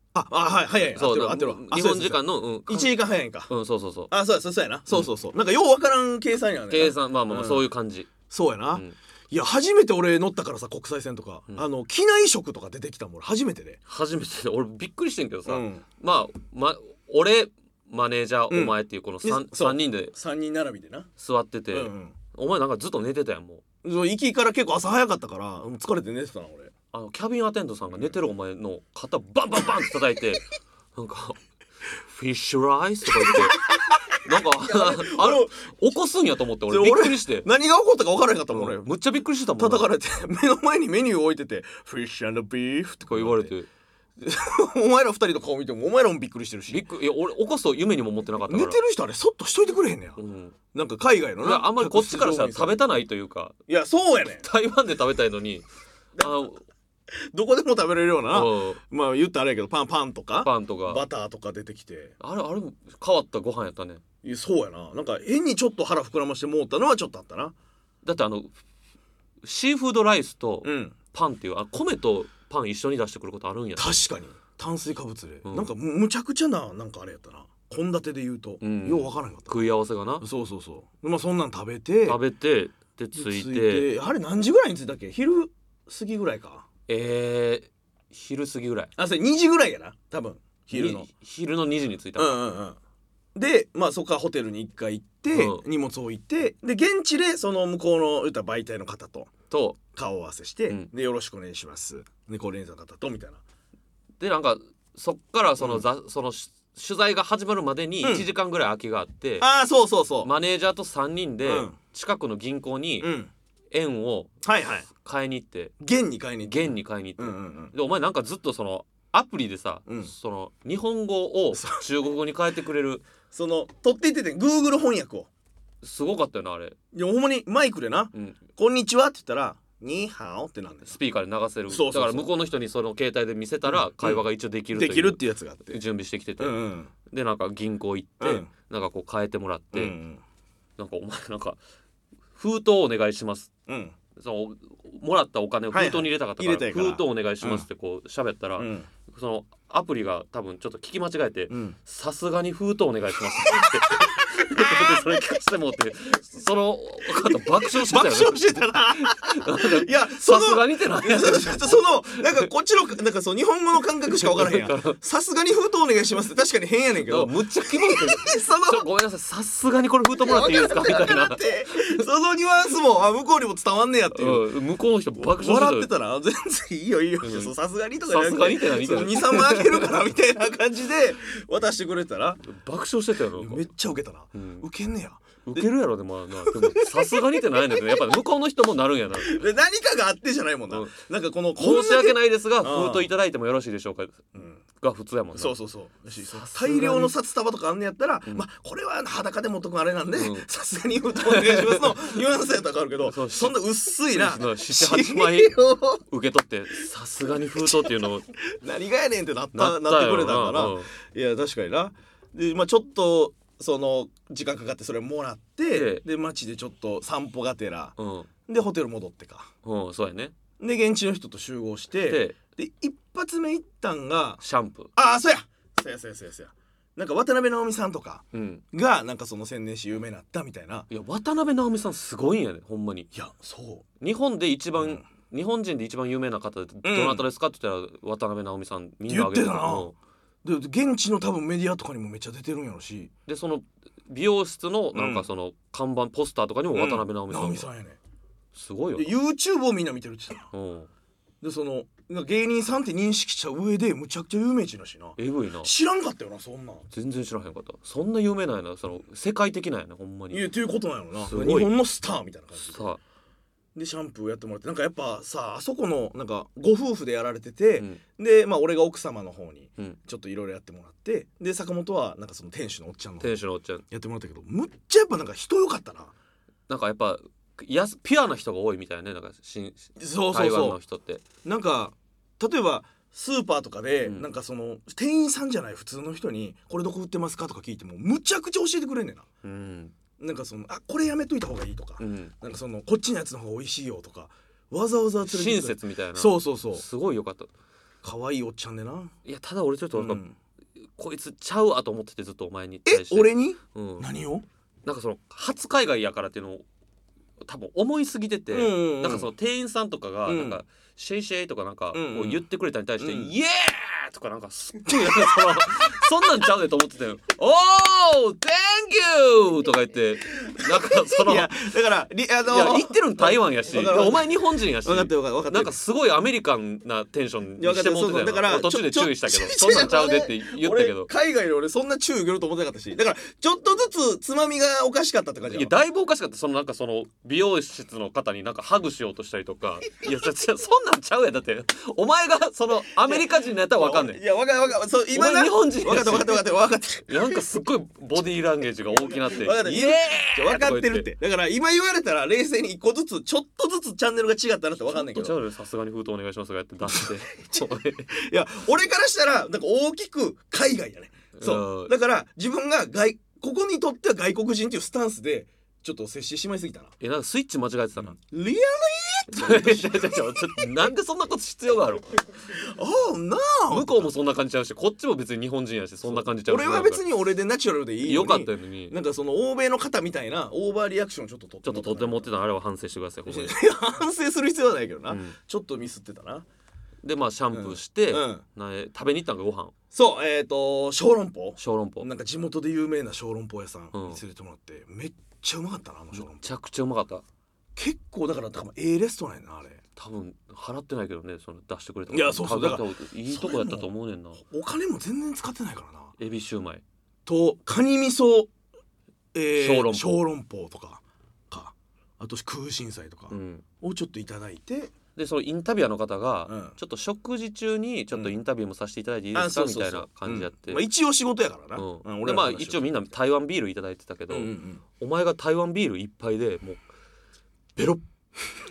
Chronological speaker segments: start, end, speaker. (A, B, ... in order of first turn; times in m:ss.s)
0:00.1-0:03.5 A
0:00.9-0:02.9 B
0:03.5-0:04.1 B
0:04.1-0:07.6 A
0:06.7-0:08.1 B
0:08.3-0:13.8 A
0:13.9-0:20.1 B
0:15.4-0:15.8 A
0:18.5-0:21.1 A
0:21.2-0:23.6 B
0:21.7-0:22.2 A
0:23.8-0:26.7 A
0:26.9-0:31.4 B
0:32.0-0:37.5 B
0:33.2-0:35.7 A
0:36.7-0:38.9 A
0:38.5-0:39.9 B
0:39.6-0:43.5 A
0:43.1-0:43.7 B
0:44.2-0:46.8 A
0:46.7-0:48.8 B
0:48.5-0:50.2 A
0:50.2-0:50.5 B
0:50.7-0:52.8 A
0:51.4-0:53.6 B
0:53.7-0:54.4 A
0:54.4-0:55.7 B
0:56.2-0:56.5 A
0:56.2-0:56.6 B
0:57.1-1:02.1 A
0:58.3-0:58.8 B
1:00.4-1:01.0 B
1:02.2-1:04.0 B
1:04.2-1:07.5 A
1:08.0-1:08.6 B
1:09.4-1:14.0 B
1:10.6-1:10.9 A
1:13.8-1:19.6 A
1:15.4-1:15.7 B
1:18.6-1:20.2 B
1:20.2-1:22.2 A
1:22.0-1:23.9 B
1:23.1-1:26.6 A
1:26.9-1:28.9 B
1:29.0-1:31.1 A
1:30.7-1:32.4 B
1:32.2-1:32.8 A
1:33.3-1:39.3 A
1:35.3-1:35.6 B
1:39.5-1:39.8 B
1:39.9-1:43.4 A
1:44.2-1:49.4 B
1:48.0-1:48.3 A
1:49.4-1:50.3 A
1:50.2-1:53.1 B
1:51.4-1:51.8 A
1:53.0-1:53.3 A
1:53.7-1:54.3 B
1:54.4-1:54.9 A
1:54.9-1:55.7 B
1:55.8-1:57.7 A
1:56.4-2:03.0 B
1:59.8-2:00.1 A
2:01.5-2:01.8 A
2:03.3-2:05.3 A
2:05.8-2:06.8 B
2:06.9-2:11.0 A
2:10.8-2:20.0 B
2:11.7-2:12.3 A
2:13.7-2:15.8 A
2:16.4-2:16.9 A
2:18.2-2:18.5 A
2:19.7-2:20.2 A
2:20.8-2:21.6 B
2:22.3-2:23.5 B
2:23.7-2:24.0 A
2:24.1-2:42.5 B
2:25.7-2:27.6 A
2:28.6-2:28.9 A
2:31.5-2:31.8 A
2:33.5-2:34.9 A
2:37.1-2:48.8 A
2:44.2-2:45.0 B
2:47.0-2:52.0 B
2:50.2-2:54.4 A
2:54.1-2:55.9 B
2:55.1-3:02.5 A
2:57.2-3:00.1 B
3:02.4-3:03.7 B
3:03.4-3:05.7 A
3:04.3-3:04.6 B
3:05.4-3:09.4 B
3:06.4-3:08.0 A
3:09.2-3:13.1 A
3:10.7-3:11.0 B
3:11.6-3:15.6 B
3:14.3-3:14.6 A
3:15.3-3:26.0 A
3:16.2-3:17.1 B
3:20.1-3:20.5 B
3:21.2-3:22.2 B
3:23.0-3:23.6 B
3:24.1-3:28.3 B
3:27.6-3:39.5 A
3:29.5-3:30.9 B
3:35.7-3:36.0 B
3:38.0-3:38.3 B
3:39.6-3:40.3 B
3:40.6-3:44.4 A
3:42.0-3:42.4 B
3:44.4-3:44.9 B
3:44.9-3:50.9 A
3:48.3-3:48.6 B
3:50.9-3:53.1 B
3:53.1-3:53.8 A
3:54.0-3:59.9 B
3:54.8-3:55.0 A
3:56.8-3:57.2 A
3:59.1-3:59.9 A
4:00.4-4:03.1 A
4:03.3-4:07.7 B
4:04.9-4:05.2 A
4:06.7-4:08.0 A
4:08.5-4:09.1 B
4:09.0-4:10.5 A
4:10.5-4:10.9 B
4:11.4-4:16.8 A
4:15.2-4:15.7 B
4:16.9-4:20.5 B
4:20.3-4:22.9 A
4:21.2-4:21.7 B
4:22.6-4:23.0 B
4:23.7-4:33.3 A
4:33.2-4:33.8 B
4:33.9-4:36.1 A
4:36.7-4:41.2 B
4:40.0-4:40.8 A
4:41.4-4:49.3 A
4:44.0-4:44.3 B
4:49.4-4:50.0 B
4:50.2-4:56.8 A
4:52.0-4:52.3 B
4:55.2-4:57.5 B
4:58.0-4:59.1 A
4:59.2-5:00.2 B
4:59.9-5:00.4 A
5:00.8-5:04.1 B
5:02.8-5:04.4 A
5:04.8-5:06.6 B
5:07.4-5:21.5 B
5:08.5-5:09.3 A
5:10.2-5:10.6 A
5:11.9-5:12.4 A
5:13.0-5:13.3 A
5:14.9-5:15.4 A
5:20.5-5:24.3 A
5:22.5-5:31.1 B
5:24.8-5:25.8 A
5:27.6-5:35.7 A
5:35.5-5:44.2 B
5:43.0-5:47.4 A
5:45.1-5:46.4 B
5:47.1-5:51.1 B
5:49.1-5:55.4 A
5:54.9-5:58.1 B
5:56.9-6:06.9 A
6:01.4-6:01.9 B
6:07.0-6:08.2 B
6:08.0-6:10.7 A
6:09.3-6:12.2 B
6:12.5-6:14.1 A
6:13.7-6:17.0 B
6:16.0-6:22.3 A
6:18.0-6:19.0 B
6:21.6-6:23.5 B
6:23.3-6:26.4 A
6:25.1-6:25.4 B
6:27.0-6:29.7 B
6:27.5-6:28.4 A
6:29.9-6:36.5 A
6:31.6-6:32.1 B
6:33.9-6:34.2 B
6:36.1-6:37.2 B
6:37.8-6:39.8 A
6:40.0-6:44.4 B
6:42.1-6:46.1 A
6:46.2-6:46.8 B
6:47.2-6:48.5 A
6:49.3-6:54.9 A
6:49.6-6:50.2 B
6:53.3-6:53.6 B
6:55.2-7:00.8 B
6:56.5-6:56.8 A
6:59.3-7:03.0 A
7:01.8-7:06.8 B
7:04.3-7:04.8 A
7:07.8-7:08.0 A